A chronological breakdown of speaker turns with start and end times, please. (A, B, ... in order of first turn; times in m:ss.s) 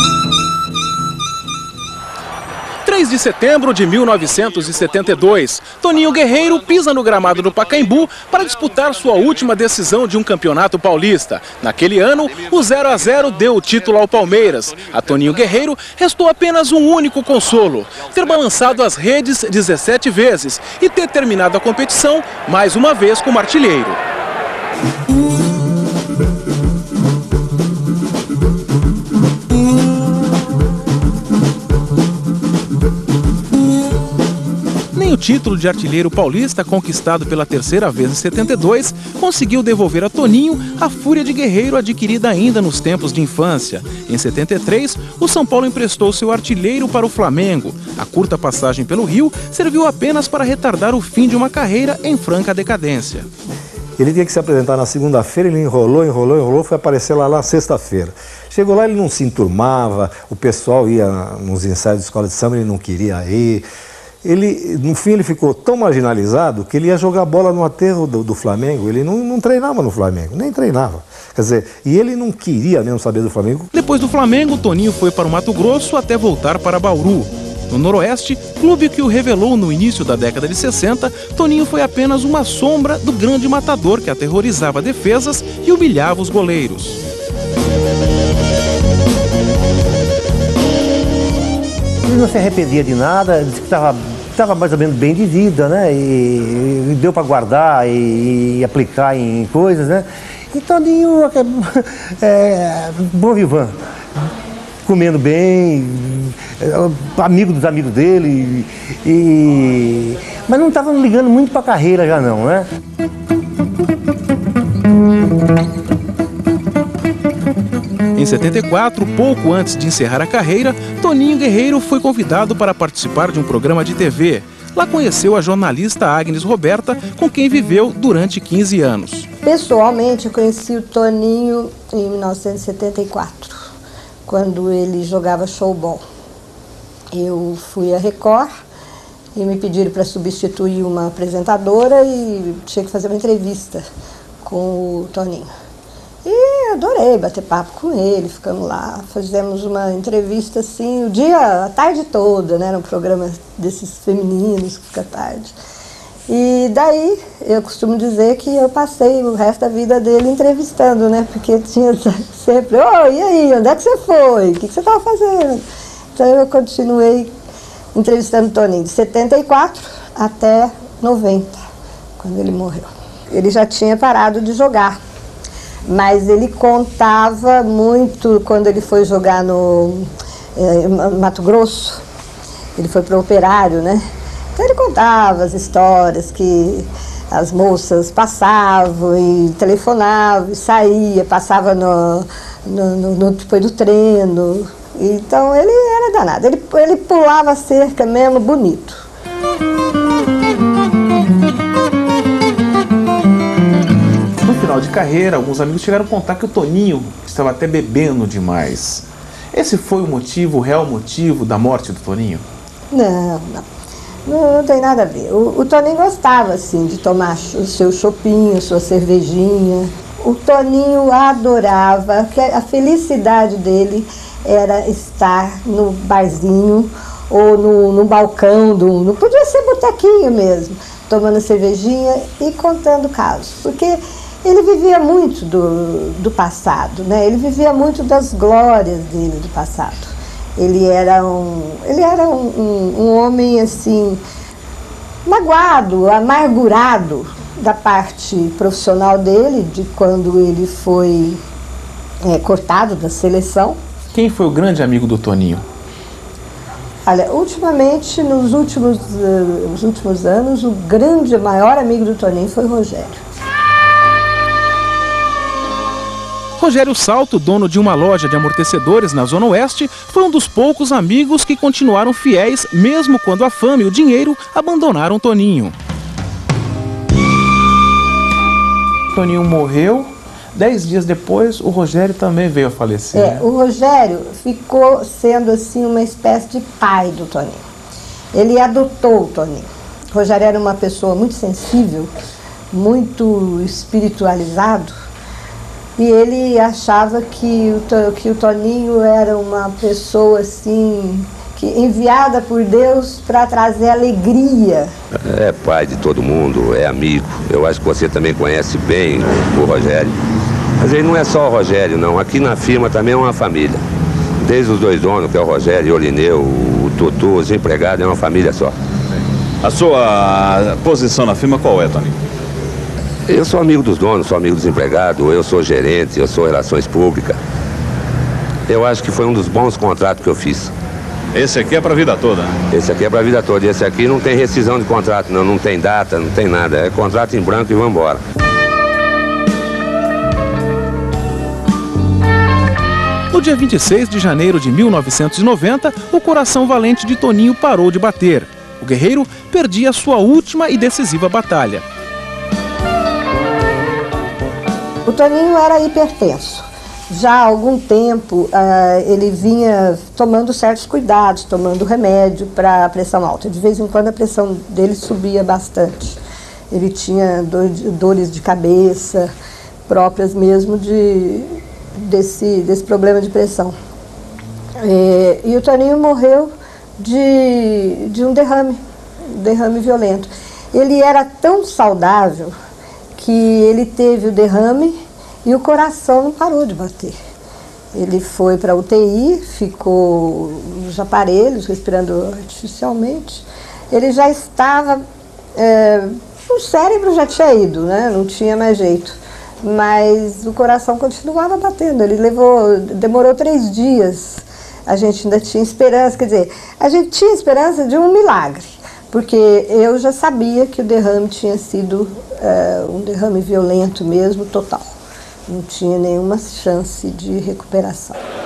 0:02.8-0:24.0 A
0:34.9-0:53.3 A
0:54.0-1:03.7 B
1:04.2-1:13.7 B
1:13.7-1:27.0 A
1:32.0-1:43.8 C
1:44.8-1:52.7 C
1:58.1-2:09.3 A
2:09.4-2:13.7 D
2:14.3-2:16.0 D
2:17.1-2:18.5 D
2:19.4-2:23.9 D
2:24.4-2:25.5 D
2:26.2-2:35.6 D
2:36.3-2:45.6 D
2:46.1-2:47.3 D
2:48.0-2:51.6 D
2:52.2-2:55.0 D
2:55.9-3:02.0 D
3:02.8-3:19.1 D
3:24.4-3:32.4 E
3:32.9-3:33.6 D
3:34.3-4:04.2 D
4:05.3-4:11.4 D
4:12.2-4:13.8 D
4:14.1-4:15.6 E
4:17.1-4:23.2 D
4:26.6-4:35.7 A
4:39.1-4:43.5 E
4:43.1-4:47.7 D
4:48.3-4:52.1 D
4:52.7-4:55.0 D
4:56.0-5:04.9 D
5:05.2-5:10.2 F
5:10.8-5:13.8 F
5:14.4-5:18.7 F
5:19.6-5:22.2 G
5:23.3-5:27.4 F
5:28.7-5:30.7 F
5:31.3-5:32.6 G
5:32.7-5:38.2 F
5:43.3-5:51.8 A
5:55.1-6:06.2 D
6:06.7-6:09.3 D
6:09.9-6:13.8 D
6:14.8-6:22.6 D
6:23.2-6:27.2 D
6:27.9-6:35.0 D
6:35.6-6:55.0 D
6:55.5-6:58.2 D